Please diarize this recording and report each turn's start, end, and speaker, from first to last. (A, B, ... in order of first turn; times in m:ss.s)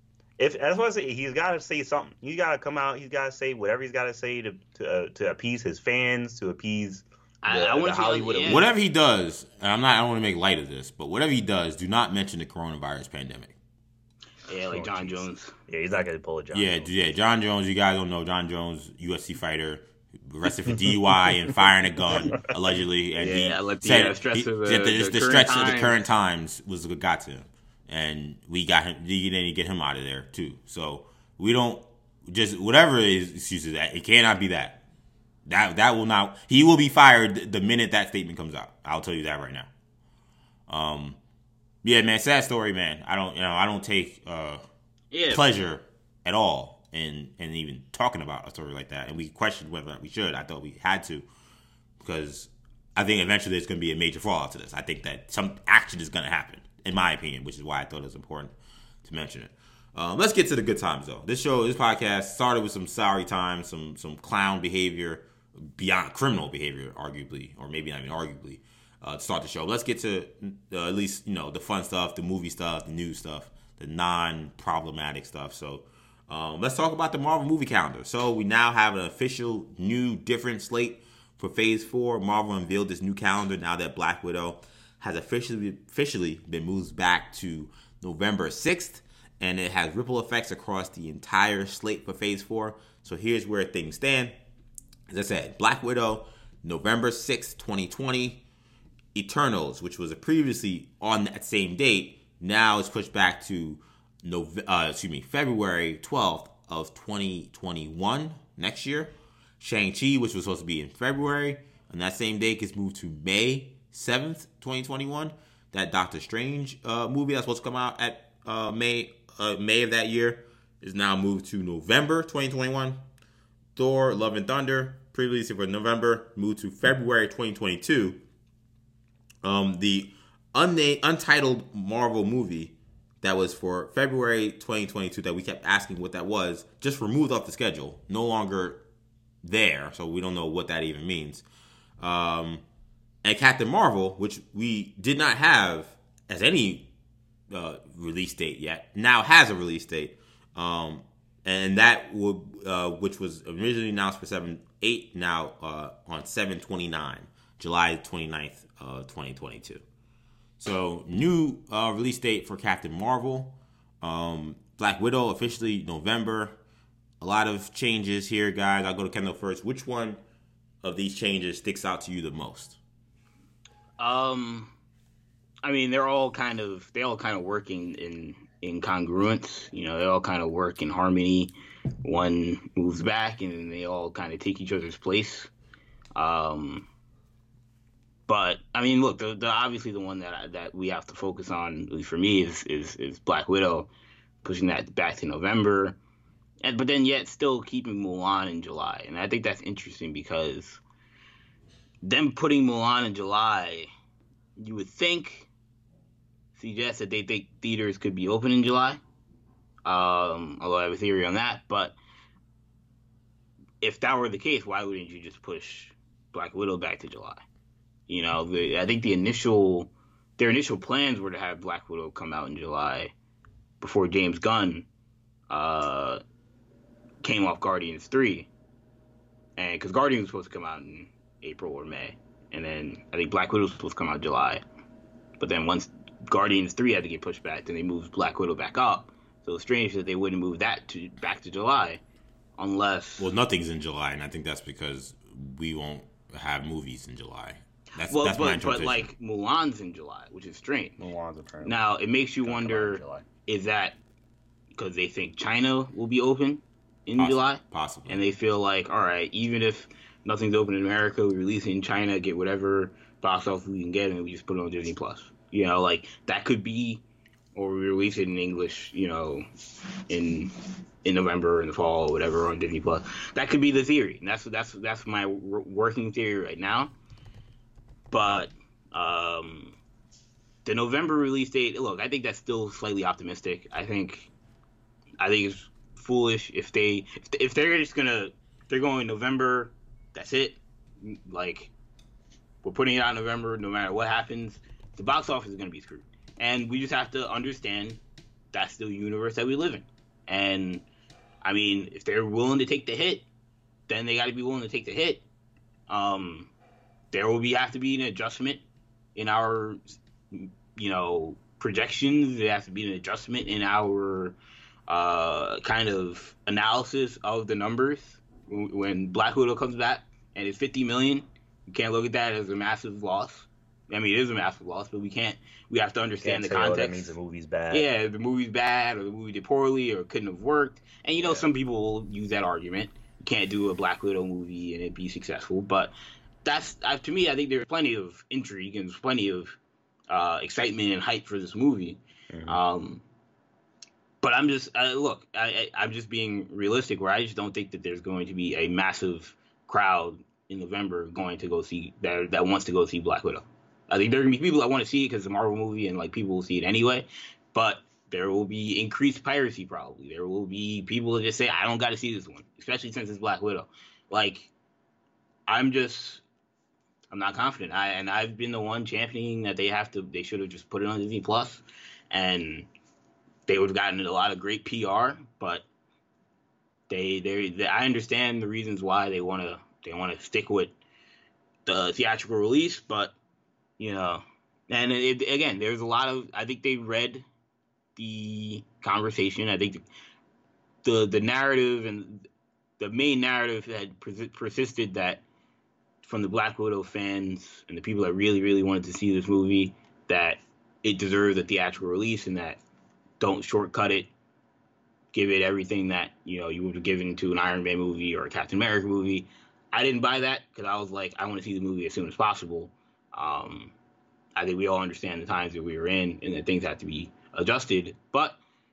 0:00.4-0:08.7 A
0:07.4-0:08.6 B
0:08.5-0:13.6 C
0:14.5-0:15.5 B
0:14.7-0:16.9 A
0:16.5-0:34.8 C
0:23.2-0:26.0 B
0:35.5-0:39.7 C
0:40.7-0:41.2 C
0:41.8-0:44.6 C
0:45.1-0:45.4 B
0:45.3-0:51.3 C
0:52.0-1:34.3 C
1:35.1-1:38.4 C
1:39.1-2:03.0 C
2:03.8-2:08.2 C
2:09.4-2:18.8 C
2:19.4-2:21.4 C
2:22.0-2:22.6 C
2:23.2-2:26.9 C
2:27.5-2:39.8 C
2:40.6-2:46.6 C
2:47.2-2:50.2 C
2:50.8-2:52.8 C
2:54.0-2:54.7 B
2:55.6-3:05.5 B
3:06.2-3:06.9 B
3:08.3-3:13.9 B
3:14.4-3:16.0 B
3:16.6-3:20.8 B
3:22.0-3:23.9 B
3:24.6-3:25.5 B
3:26.6-3:29.0 B
3:29.8-3:32.0 B
3:33.8-3:37.4 B
3:38.1-3:43.1 B
3:43.8-3:44.9 B
3:45.5-3:46.2 B
3:47.2-3:48.5 B
3:49.6-3:54.6 B
3:55.4-4:02.0 B
4:02.6-4:03.3 B
4:03.2-4:09.1 C
4:08.1-4:11.0 B
4:11.0-4:11.8 A
4:11.6-4:14.0 B
4:12.4-4:13.3 A
4:14.8-4:27.0 B
4:17.2-4:18.2 C
4:27.6-4:29.5 B
4:30.1-4:30.5 B
4:31.0-4:36.9 B
4:38.1-4:39.8 B
4:40.6-4:44.3 B
4:45.2-4:51.7 B
4:52.6-4:58.0 B
4:58.5-5:00.8 B
5:01.4-5:03.3 B
5:03.9-5:05.2 B
5:05.9-5:06.5 B
5:07.1-5:08.6 B
5:09.2-5:14.4 B
5:14.9-5:27.1 B
5:26.2-5:27.9 A
5:27.7-5:35.9 B
5:31.2-5:31.5 A
5:36.4-5:39.6 B
5:40.1-5:43.0 B
5:42.3-5:42.6 A
5:44.2-6:04.5 B
6:05.5-6:06.2 B
6:07.1-6:12.7 B
6:13.5-6:15.7 B
6:16.9-6:20.7 B
6:21.7-6:23.2 B
6:23.8-6:27.2 B
6:28.0-6:29.8 B
6:30.8-6:32.3 B
6:32.8-6:35.2 B
6:36.0-6:42.6 B
6:43.2-6:44.1 B
6:45.1-6:53.7 B
6:54.4-6:58.4 B